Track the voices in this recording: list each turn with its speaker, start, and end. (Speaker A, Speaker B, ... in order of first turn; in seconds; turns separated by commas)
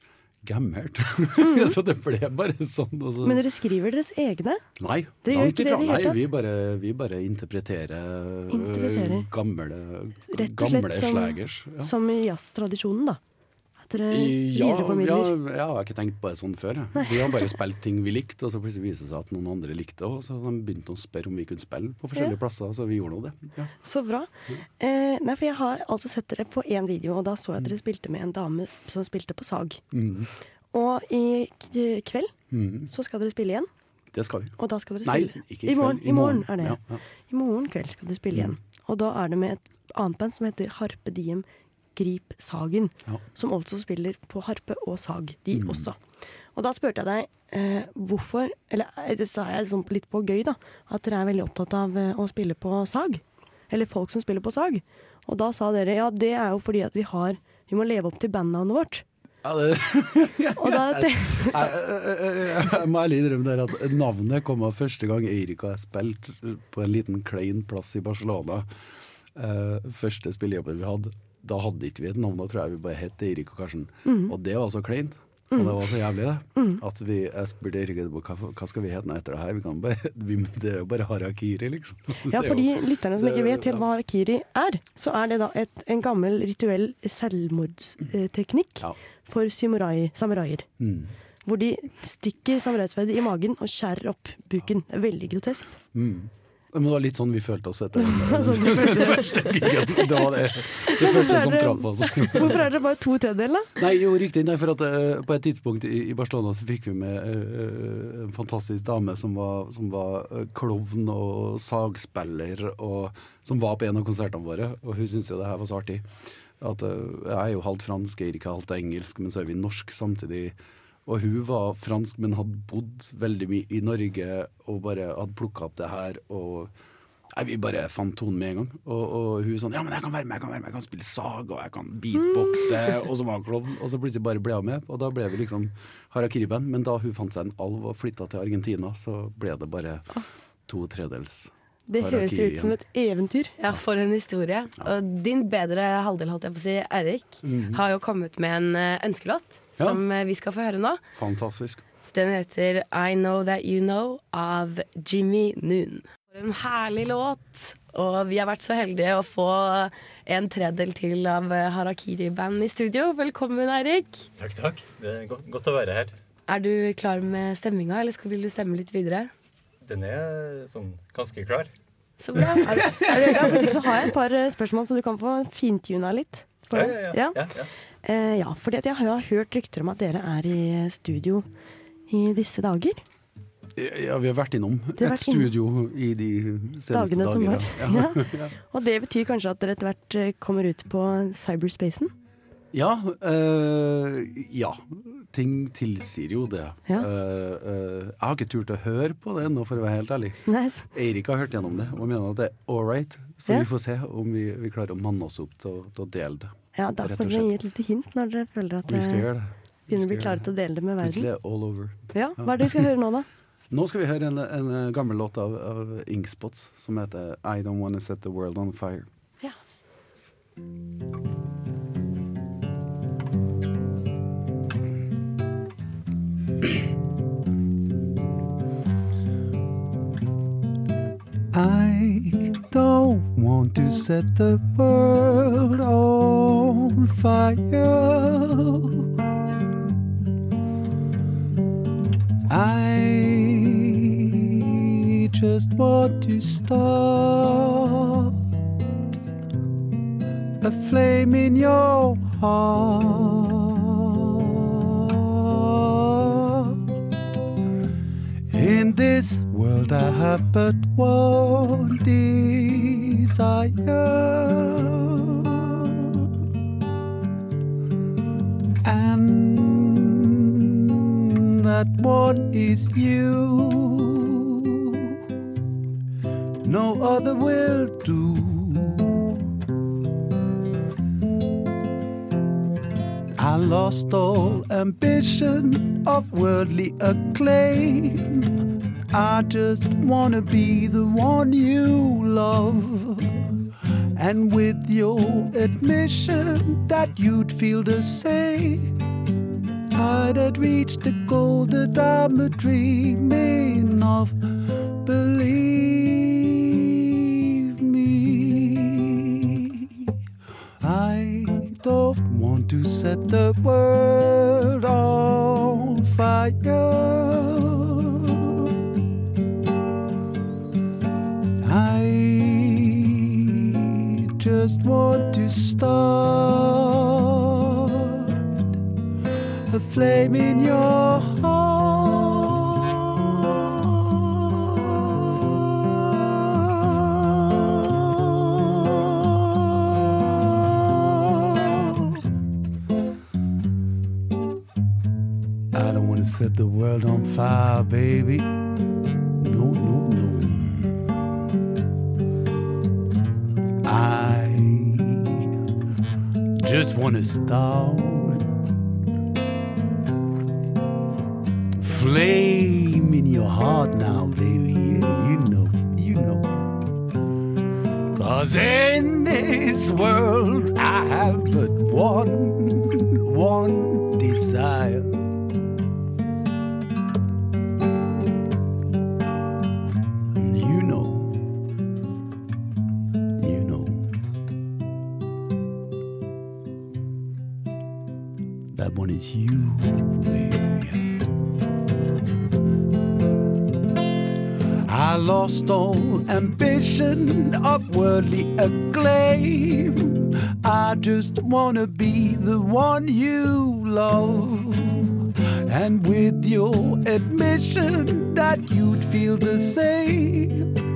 Speaker A: 0.4-3.4, Speaker B: 1.4-1.8, Speaker B: 3.2-4.6, Speaker A: 4.8-11.9, Speaker B: 5.2-6.2, Speaker B: 8.5-9.3, Speaker B: 10.3-13.2, Speaker B: 13.8-15.3, Speaker A: 14.1-23.7, Speaker B: 23.8-29.8, Speaker A: 29.9-30.3, Speaker B: 30.7-33.7, Speaker A: 32.5-32.9, Speaker A: 34.1-37.0, Speaker B: 34.6-46.0, Speaker A: 45.5-45.9, Speaker B: 46.5-59.0, Speaker A: 59.4-68.7, Speaker B: 60.6-61.7, Speaker A: 69.3-83.9, Speaker B: 74.1-74.3, Speaker B: 82.3-90.7, Speaker A: 90.8-91.1, Speaker B: 91.4-95.8, Speaker A: 95.9-102.7, Speaker B: 98.0-99.7, Speaker B: 100.9-103.7, Speaker A: 103.8-126.7, Speaker A: 127.3-140.1, Speaker A: 140.7-142.8, Speaker B: 141.9-143.5, Speaker C: 143.6-151.0, Speaker A: 147.4-147.8, Speaker A: 149.8-150.0, Speaker A: 151.1-151.8, Speaker C: 152.1-164.3, Speaker D: 164.4-166.1, Speaker C: 166.5-169.3, Speaker D: 169.9-171.7, Speaker C: 172.2-173.1, Speaker B: 172.7-181.4, Speaker D: 176.7-177.7, Speaker B: 182.1-183.0, Speaker A: 183.8-188.5, Speaker B: 185.0-185.5, Speaker B: 186.9-192.1, Speaker A: 192.7-207.5, Speaker B: 200.5-200.9, Speaker B: 206.8-209.3, Speaker A: 208.9-212.9, Speaker B: 209.9-213.3, Speaker A: 213.7-219.1, Speaker A: 231.5-239.1, Speaker A: 242.5-248.4, Speaker A: 250.6-256.8, Speaker A: 258.5-266.2, Speaker A: 268.8-275.2, Speaker A: 276.6-279.3, Speaker A: 283.4-288.6, Speaker A: 289.1-293.5, Speaker A: 294.1-298.9, Speaker A: 299.9-304.4, Speaker A: 305.0-310.1, Speaker A: 310.8-318.7, Speaker A: 321.6-328.4, Speaker A: 329.7-342.2, Speaker A: 345.7-348.5, Speaker A: 349.4-351.1, Speaker A: 353.8-355.5, Speaker A: 356.6-358.5, Speaker A: 361.8-366.5, Speaker A: 368.1-375.2, Speaker A: 380.4-381.4, Speaker A: 383.4-384.1, Speaker A: 388.7-391.2, Speaker A: 394.9-410.8